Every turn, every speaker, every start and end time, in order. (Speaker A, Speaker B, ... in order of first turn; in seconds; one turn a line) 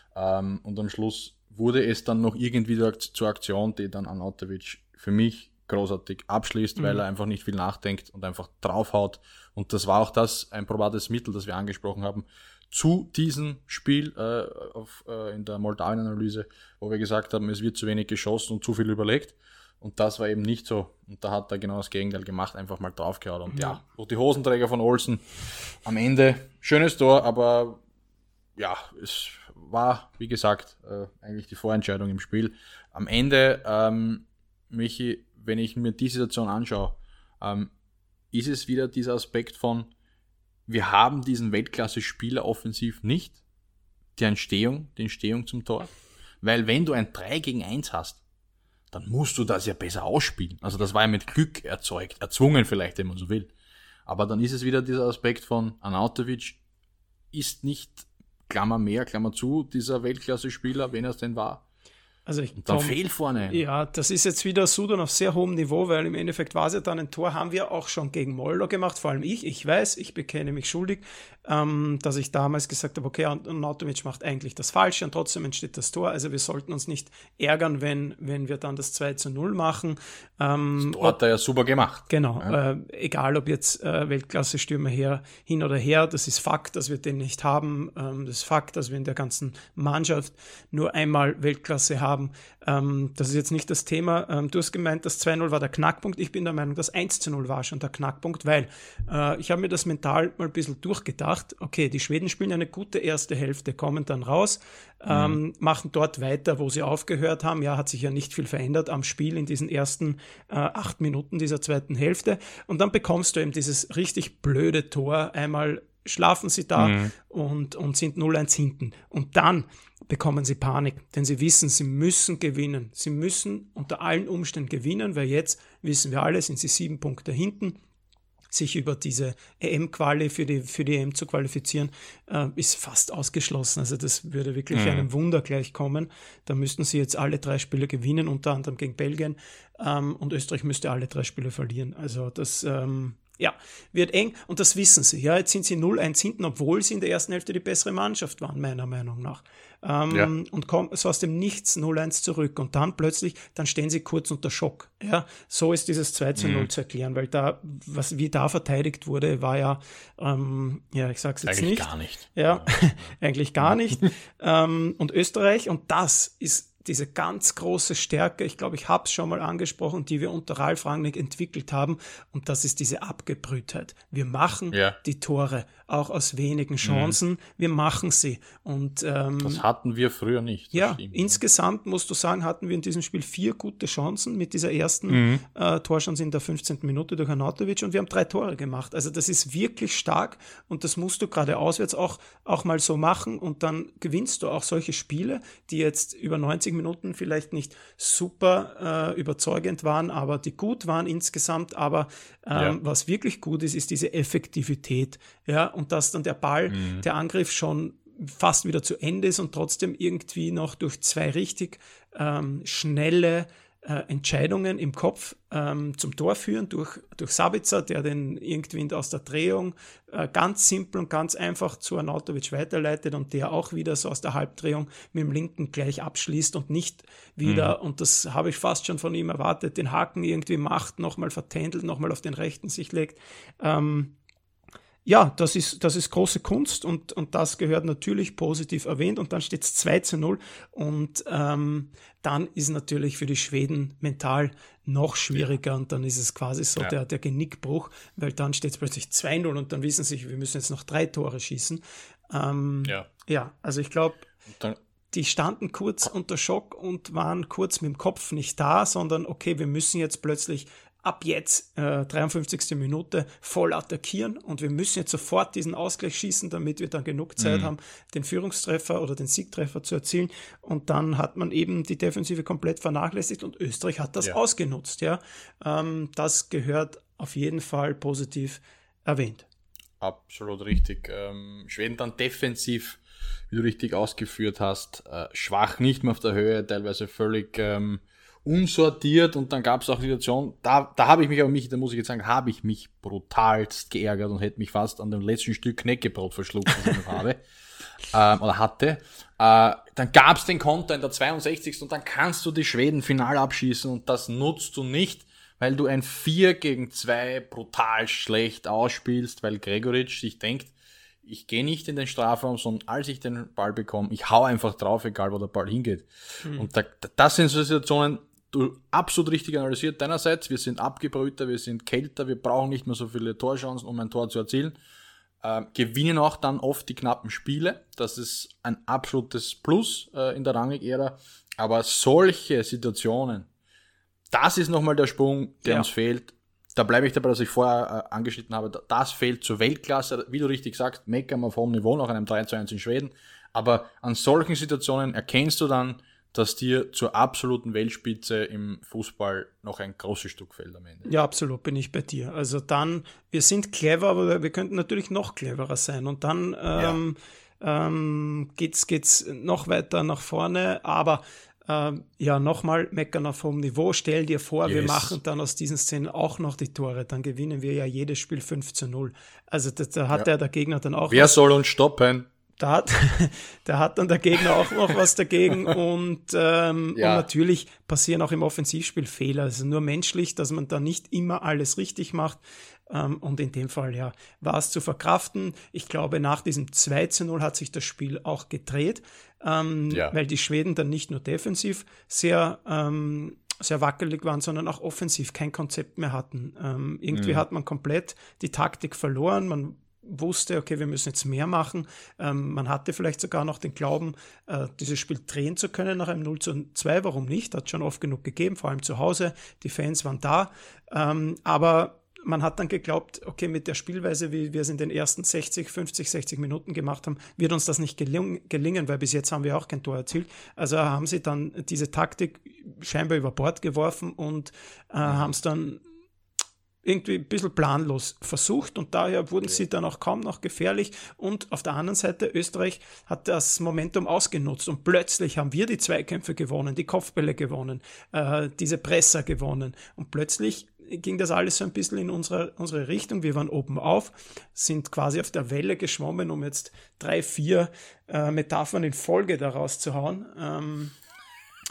Speaker A: 0.1-25.2
Speaker B: 6.8-7.0
Speaker B: 23.5-23.8
Speaker A: 25.8-27.8
Speaker A: 28.6-37.7
Speaker A: 38.3-39.9
Speaker A: 40.7-43.4
Speaker A: 44.1-45.9
Speaker A: 46.4-48.2
Speaker A: 48.9-53.5
Speaker A: 54.1-56.6
Speaker A: 57.3-61.6
Speaker B: 62.3-63.0
Speaker A: 62.6-63.6
Speaker B: 63.5-81.2
Speaker A: 80.8-82.6
Speaker B: 82.1-127.8
Speaker A: 105.1-105.4
Speaker A: 116.8-117.1
Speaker B: 128.5-179.6
Speaker A: 134.7-135.1
Speaker A: 156.4-156.7
Speaker A: 161.4-163.1
Speaker A: 174.7-175.0
Speaker A: 176.8-177.2
Speaker A: 179.4-181.4
Speaker B: 180.7-234.1
Speaker A: 185.1-185.4
Speaker A: 206.7-207.1
Speaker A: 227.4-227.8
Speaker B: 235.1-254.3
Speaker A: 254.5-254.8
Speaker B: 255.1-279.4
Speaker A: 267.4-267.7
Speaker A: 280.0-297.4
Speaker A: 298.1-324.8
Speaker B: 316.4-316.7
Speaker A: 325.4-333.5
Speaker A: 334.3-351.1
Speaker B: 335.6-335.9
Speaker B: 351.1-371.4
Speaker A: 364.6-365.2
Speaker A: 371.1-372.3
Speaker B: 372.6-425.8
Speaker A: 376.9-377.3
Speaker A: 397.1-397.4
Speaker A: 425.1-425.3
Speaker B: 426.8-450.9